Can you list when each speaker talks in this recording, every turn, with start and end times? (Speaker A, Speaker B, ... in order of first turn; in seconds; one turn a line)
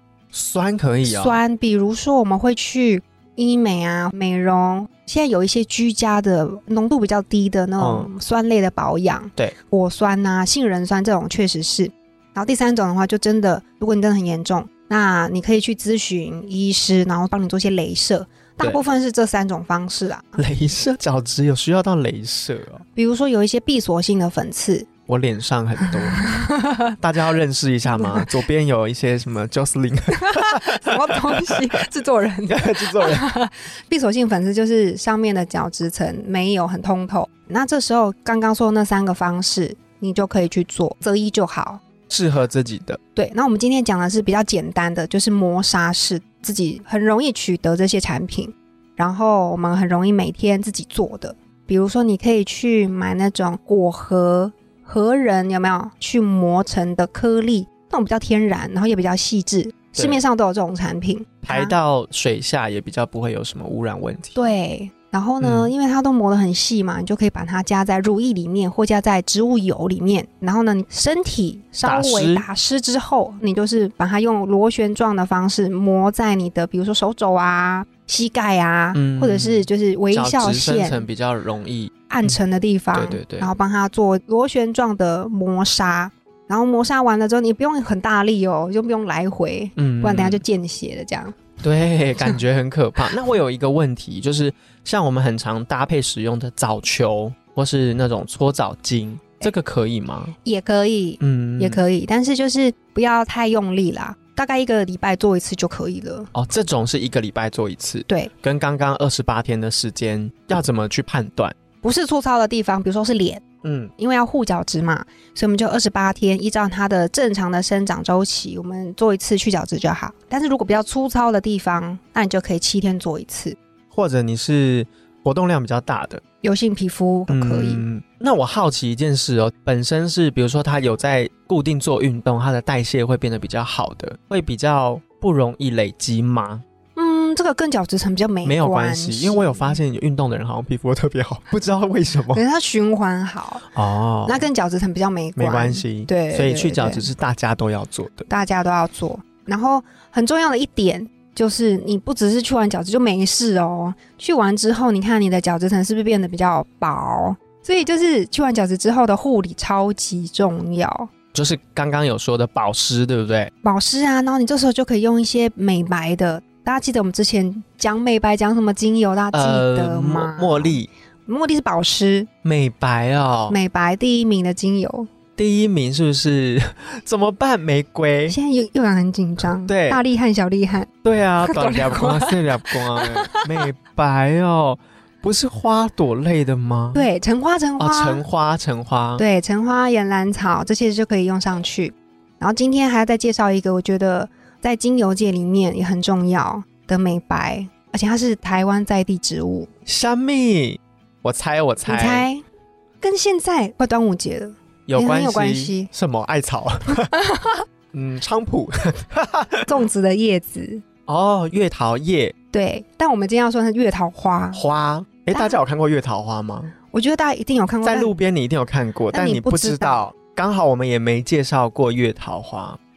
Speaker A: 0.3-1.4
Speaker B: 1.0-20.4
Speaker A: 7.8-8.1
Speaker A: 20.4-22.8
Speaker B: 22.9-24.9
Speaker A: 25.1-26.2
Speaker B: 25.9-26.9
Speaker A: 27.0-31.7
Speaker B: 27.9-28.3
Speaker B: 30.1-41.8
Speaker A: 32.5-33.2
Speaker A: 42.1-43.0
Speaker B: 43.1-61.7
Speaker A: 61.4-64.4
Speaker B: 64.3-81.0
Speaker A: 65.4-65.7
Speaker A: 71.8-72.5
Speaker A: 78.9-82.4
Speaker B: 82.1-91.4
Speaker A: 82.9-83.5
Speaker A: 89.8-90.4
Speaker A: 91.6-100.3
Speaker B: 100.4-106.3
Speaker A: 101.2-101.8
Speaker A: 106.3-111.5
Speaker B: 111.8-113.4
Speaker A: 113.6-113.9
Speaker B: 114.0-123.6
Speaker A: 123.9-126.2
Speaker B: 126.4-127.8
Speaker A: 127.3-136.6
Speaker B: 136.9-139.8
Speaker A: 138.4-142.4
Speaker B: 142.3-143.7
Speaker A: 143.7-144.4
Speaker B: 144.2-147.0
Speaker A: 145.3-148.3
Speaker B: 148.3-161.1
Speaker A: 161.3-163.5
Speaker B: 163.6-172.3
Speaker A: 169.3-170.9
Speaker A: 172.4-173.6
Speaker B: 173.5-175.1
Speaker A: 175.4-178.3
Speaker B: 178.3-180.9
Speaker A: 179.6-180.0
Speaker A: 181.0-187.0
Speaker B: 181.4-183.5
Speaker B: 186.9-188.2
Speaker A: 187.8-189.2
Speaker B: 189.2-199.7
Speaker A: 199.9-202.2
Speaker B: 201.8-202.4
Speaker B: 203.0-205.9
Speaker A: 204.9-207.1
Speaker B: 207.1-207.6
Speaker A: 207.9-209.7
Speaker B: 209.7-210.8
Speaker A: 211.1-212.3
Speaker B: 212.5-214.6
Speaker A: 214.5-216.7
Speaker B: 215.3-215.6
Speaker B: 216.9-218.1
Speaker A: 217.8-222.8
Speaker B: 219.1-220.1